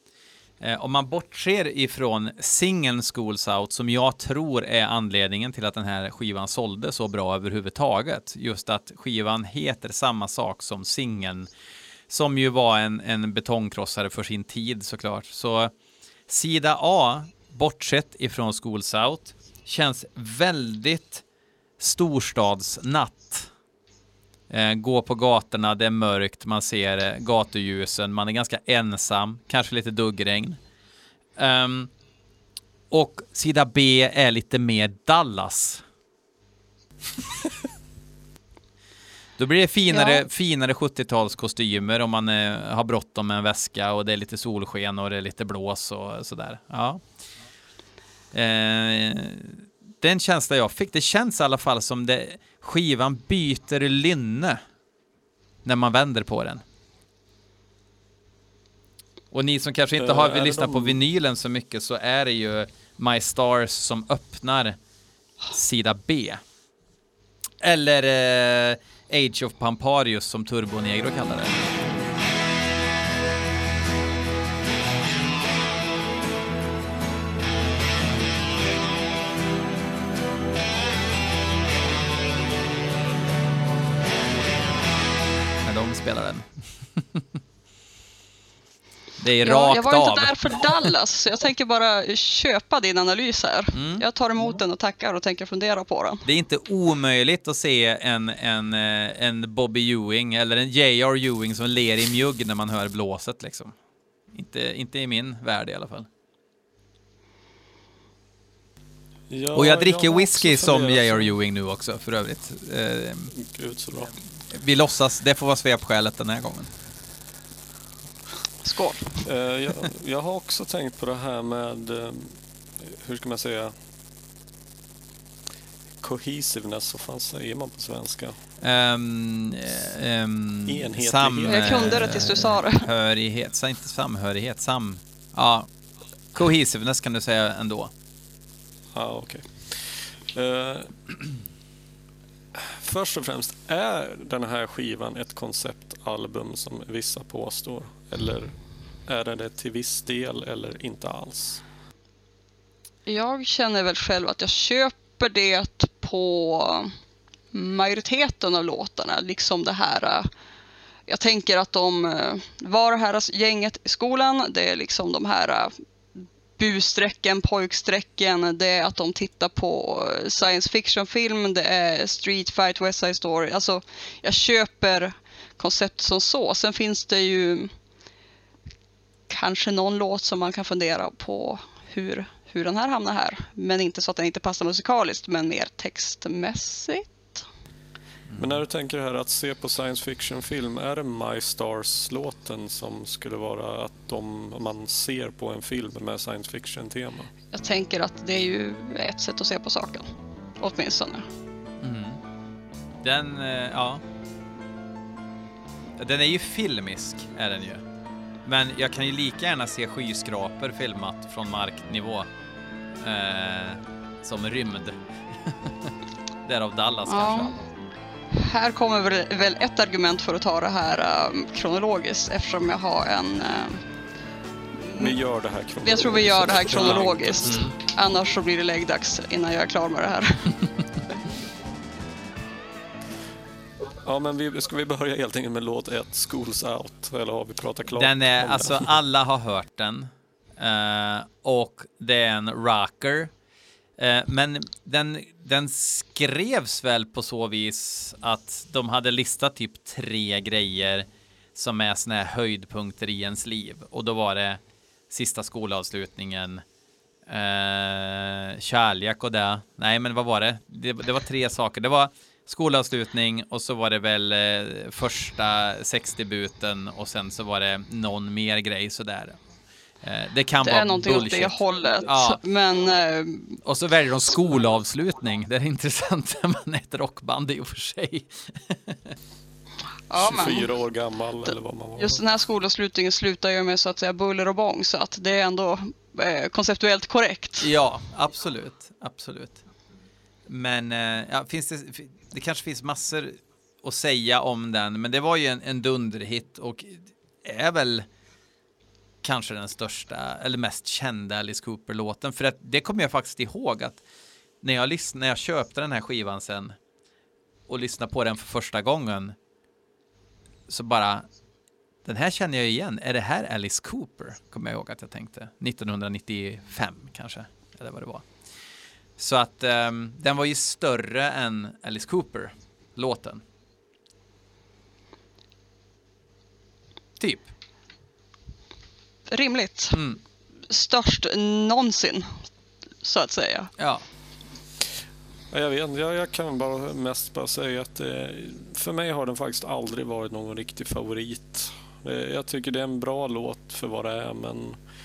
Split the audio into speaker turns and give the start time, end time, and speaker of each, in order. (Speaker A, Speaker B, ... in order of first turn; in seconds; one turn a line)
Speaker A: 0.6-11.5
Speaker A: 12.1-15.7
Speaker A: 16.3-21.2
Speaker A: 21.8-23.5
Speaker A: 24.5-30.6
Speaker A: 31.4-31.9
Speaker A: 32.9-35.8
Speaker A: 39.4-47.0
Speaker B: 39.9-40.2
Speaker A: 48.3-54.6
Speaker A: 55.6-56.6
Speaker A: 59.3-64.8
Speaker C: 60.0-61.0
Speaker A: 65.5-66.4
Speaker A: 67.6-71.7
Speaker A: 85.6-87.2
Speaker A: 89.2-90.9
Speaker B: 89.4-96.3
Speaker A: 93.7-94.0
Speaker A: 96.2-103.7
Speaker A: 104.3-106.1
Speaker C: 109.3-111.3
Speaker A: 109.5-113.3
Speaker C: 113.3-114.1
Speaker A: 114.5-116.7
Speaker B: 118.6-119.1
Speaker C: 119.2-123.7
Speaker C: 126.0-128.4
Speaker A: 128.6-135.7
Speaker C: 130.7-132.4
Speaker B: 131.5-132.9
Speaker A: 136.3-137.9
Speaker C: 138.9-141.0
Speaker C: 142.5-148.5
Speaker C: 149.1-151.6
Speaker B: 153.1-156.9
Speaker B: 157.5-160.3
Speaker B: 161.1-165.8
Speaker B: 166.6-177.7
Speaker B: 179.3-187.4
Speaker A: 188.3-188.6
Speaker C: 188.4-197.3
Speaker B: 197.5-200.1
Speaker B: 200.6-201.3
Speaker A: 201.8-202.2
Speaker A: 203.0-204.0
Speaker A: 206.0-207.8
Speaker A: 208.4-212.3
Speaker A: 213.0-215.9
Speaker A: 216.4-217.5
Speaker B: 217.1-217.6
Speaker B: 218.3-223.8
Speaker B: 224.8-225.2
Speaker C: 224.9-227.6
Speaker B: 225.8-230.6
Speaker A: 227.0-227.7
Speaker C: 233.8-238.9
Speaker A: 237.9-243.3
Speaker A: 244.0-256.6
Speaker A: 257.3-269.4
Speaker A: 270.0-272.4
Speaker B: 270.6-273.6
Speaker A: 273.6-279.1
Speaker B: 280.1-280.7
Speaker C: 280.1-282.2
Speaker B: 282.0-287.7
Speaker A: 287.6-289.6
Speaker A: 290.5-298.1
Speaker A: 299.2-304.0
Speaker A: 304.6-306.8
Speaker A: 307.7-309.4
Speaker A: 310.7-311.3
Speaker A: 312.0-318.3
Speaker A: 319.2-323.4
Speaker A: 327.2-327.5
Speaker B: 329.3-330.0
Speaker A: 329.9-330.2
Speaker B: 330.7-332.5
Speaker B: 333.0-333.7
Speaker A: 333.8-334.0
Speaker C: 335.5-344.8